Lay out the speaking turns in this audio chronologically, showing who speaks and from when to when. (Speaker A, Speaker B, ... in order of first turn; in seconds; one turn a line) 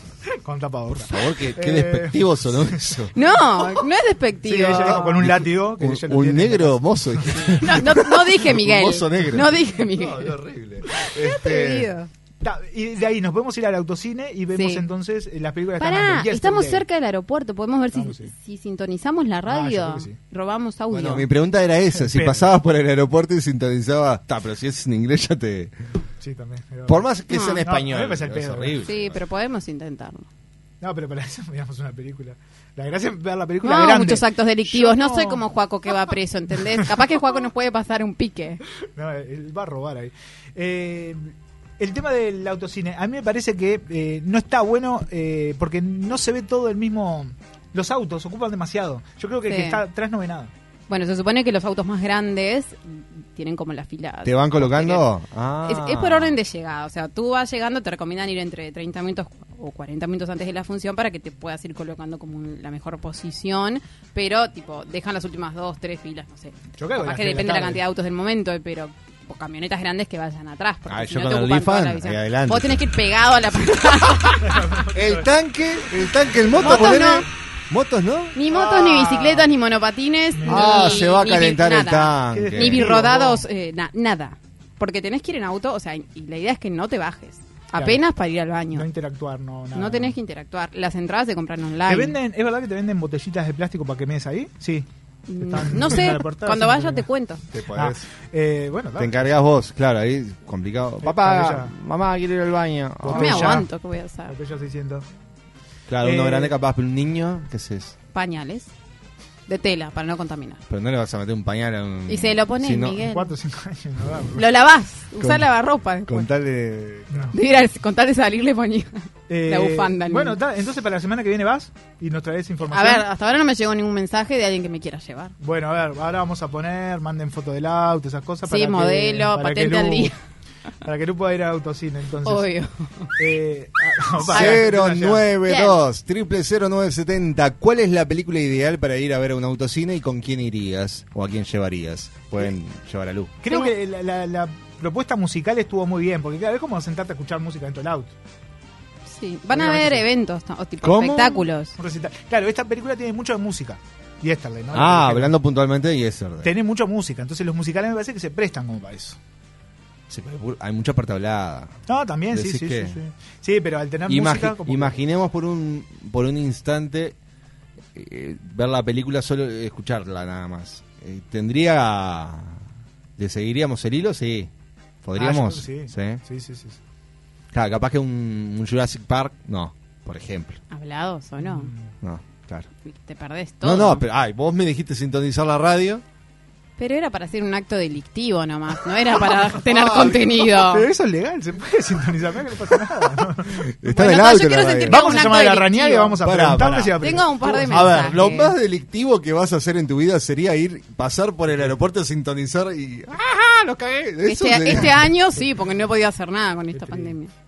Speaker A: 0.4-2.9
Speaker B: 1.0-3.1
Speaker C: 3.1-5.2
Speaker A: 4.4-7.4
Speaker B: 5.0-11.9
Speaker C: 7.6-10.3
Speaker C: 10.9-12.1
Speaker A: 12.4-16.8
Speaker C: 14.5-14.8
Speaker C: 15.8-21.3
Speaker A: 17.9-18.3
Speaker A: 19.4-20.2
Speaker B: 20.9-25.8
Speaker A: 21.9-22.5
Speaker A: 26.2-27.1
Speaker B: 26.9-29.2
Speaker C: 27.3-27.6
Speaker A: 27.6-28.8
Speaker C: 28.8-30.3
Speaker A: 30.8-35.5
Speaker C: 33.6-38.6
Speaker A: 38.9-50.5
Speaker C: 49.5-49.8
Speaker C: 50.9-55.1
Speaker B: 54.2-56.4
Speaker C: 55.6-74.7
Speaker A: 66.8-67.8
Speaker B: 70.9-72.9
Speaker A: 74.4-75.2
Speaker B: 74.9-78.3
Speaker A: 76.5-77.2
Speaker C: 76.6-77.2
Speaker C: 78.3-88.9
Speaker A: 78.5-79.5
Speaker A: 80.3-81.1
Speaker B: 80.5-82.9
Speaker A: 82.3-83.4
Speaker A: 87.8-88.0
Speaker A: 88.7-90.1
Speaker C: 89.7-92.2
Speaker A: 91.8-94.9
Speaker C: 95.3-97.4
Speaker A: 95.4-97.1
Speaker B: 97.5-98.0
Speaker A: 97.7-99.3
Speaker B: 99.0-103.6
Speaker A: 101.0-101.7
Speaker A: 103.0-103.7
Speaker C: 103.1-104.3
Speaker A: 104.3-105.0
Speaker B: 105.9-108.0
Speaker A: 106.0-106.5
Speaker C: 108.1-108.7
Speaker C: 109.5-110.6
Speaker B: 110.7-113.0
Speaker C: 112.1-113.3
Speaker A: 113.0-114.4
Speaker C: 114.3-116.3
Speaker B: 115.2-115.5
Speaker B: 116.1-117.3
Speaker A: 117.1-117.3
Speaker C: 117.3-118.9
Speaker A: 119.3-123.0
Speaker C: 119.5-120.4
Speaker C: 122.7-125.3
Speaker A: 125.4-130.1
Speaker C: 128.5-130.1
Speaker A: 130.8-132.5
Speaker C: 132.2-133.1
Speaker A: 133.2-135.3
Speaker B: 134.3-143.4
Speaker C: 134.3-134.6
Speaker C: 135.4-135.8
Speaker A: 143.4-148.1
Speaker C: 149.1-151.8
Speaker A: 149.5-150.1
Speaker B: 150.8-151.4
Speaker A: 151.8-155.3
Speaker B: 154.7-156.5
Speaker A: 156.4-159.2
Speaker B: 160.1-161.8
Speaker A: 161.9-164.9
Speaker B: 162.3-163.0
Speaker B: 164.1-167.2
Speaker B: 167.9-172.6
Speaker B: 173.2-174.5
Speaker B: 175.0-176.2
Speaker A: 175.1-176.8
Speaker B: 177.5-180.6
Speaker C: 180.7-181.7
Speaker A: 181.4-181.9
Speaker B: 182.0-182.7
Speaker C: 182.8-184.0
Speaker B: 183.6-186.0
Speaker C: 186.8-190.9
Speaker B: 189.6-190.4
Speaker A: 190.1-193.6
Speaker B: 193.6-195.2
Speaker C: 193.9-196.2
Speaker A: 194.8-198.2
Speaker B: 196.2-197.0
Speaker C: 197.0-198.5
Speaker B: 197.6-205.1
Speaker C: 204.2-207.3
Speaker A: 206.7-207.2